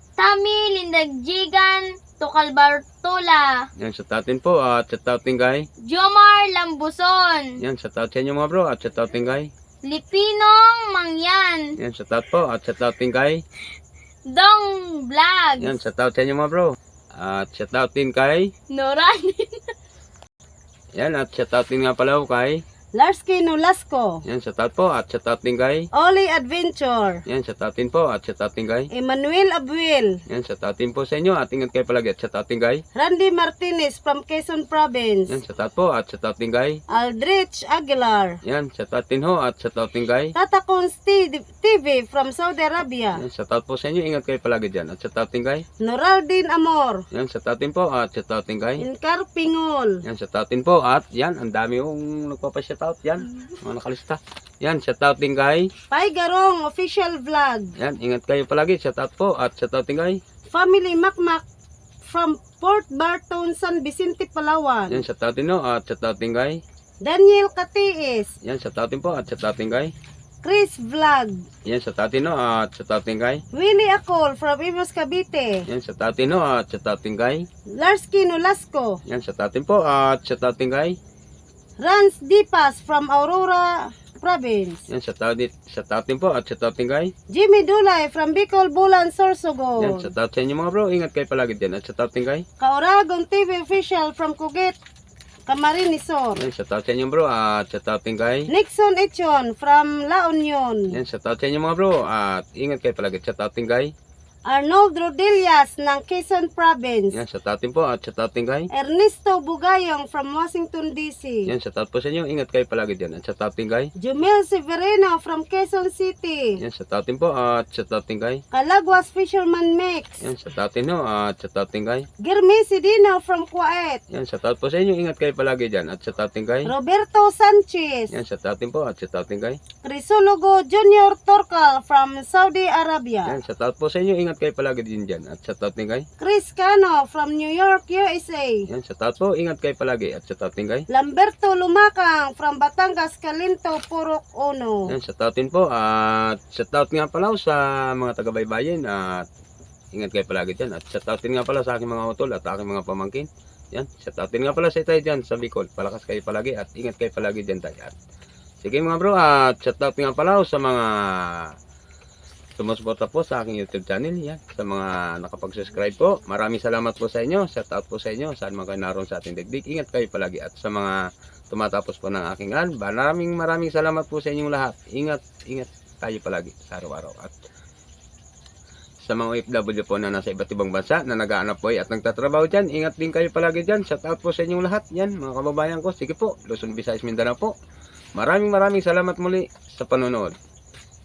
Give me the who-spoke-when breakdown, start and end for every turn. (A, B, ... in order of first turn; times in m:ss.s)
0:00.2-0:03.7 A
0:03.8-0:05.7 B
0:05.8-0:07.5 A
0:07.6-0:09.5 B
0:09.8-0:11.7 A
0:11.8-0:13.4 B
0:14.3-0:15.8 A
0:15.6-0:18.5 B
0:18.7-0:19.7 A
0:20.9-0:22.6 B
0:22.9-0:24.2 C
0:24.2-0:25.9 B
0:25.9-0:27.2 C
0:27.3-0:28.9 B
0:28.9-0:30.2 C
0:30.3-0:32.8 B
0:32.9-0:35.4 C
0:35.3-0:36.8 B
0:36.9-0:38.4 C
0:38.4-0:40.3 B
0:40.4-0:43.2 C
0:43.2-0:45.6 B
0:45.8-0:47.0 C
0:47.1-0:48.8 B
0:48.8-0:50.0 C
0:50.0-0:55.7 B
0:55.9-0:57.7 C
0:57.8-1:00.2 B
1:00.5-1:01.4 C
1:02.0-1:05.0 C
1:04.9-1:06.6 B
1:07.0-1:08.3 C
1:08.4-1:09.9 B
1:10.4-1:11.4 C
1:11.6-1:13.4 B
1:13.5-1:15.6 C
1:15.7-1:17.5 B
1:17.7-1:19.0 C
1:19.1-1:21.0 B
1:21.8-1:24.8 C
1:24.9-1:27.1 B
1:27.3-1:30.1 C
1:29.8-1:32.4 B
1:32.6-1:34.8 C
1:35.5-1:36.4 C
1:36.4-1:38.5 B
1:38.5-1:40.9 C
1:40.9-1:43.9 B
1:44.5-1:47.2 C
1:47.1-1:48.7 B
1:48.7-1:51.5 C
1:51.4-1:53.9 B
1:54.0-1:56.5 C
1:56.6-1:58.4 B
1:58.5-2:00.2 C
2:00.2-2:02.1 B
2:02.2-2:04.0 C
2:04.1-2:06.7 B
2:06.6-2:08.1 C
2:08.1-2:09.6 B
2:09.8-2:13.4 C
2:13.2-2:16.1 B
2:16.2-2:18.6 C
2:18.7-2:20.9 B
2:20.9-2:24.8 C
2:24.9-2:29.3 B
2:29.9-2:37.9 B
2:38.6-2:41.5 B
2:42.6-2:57.4 B
2:59.0-3:07.5 B
3:08.1-3:10.4 B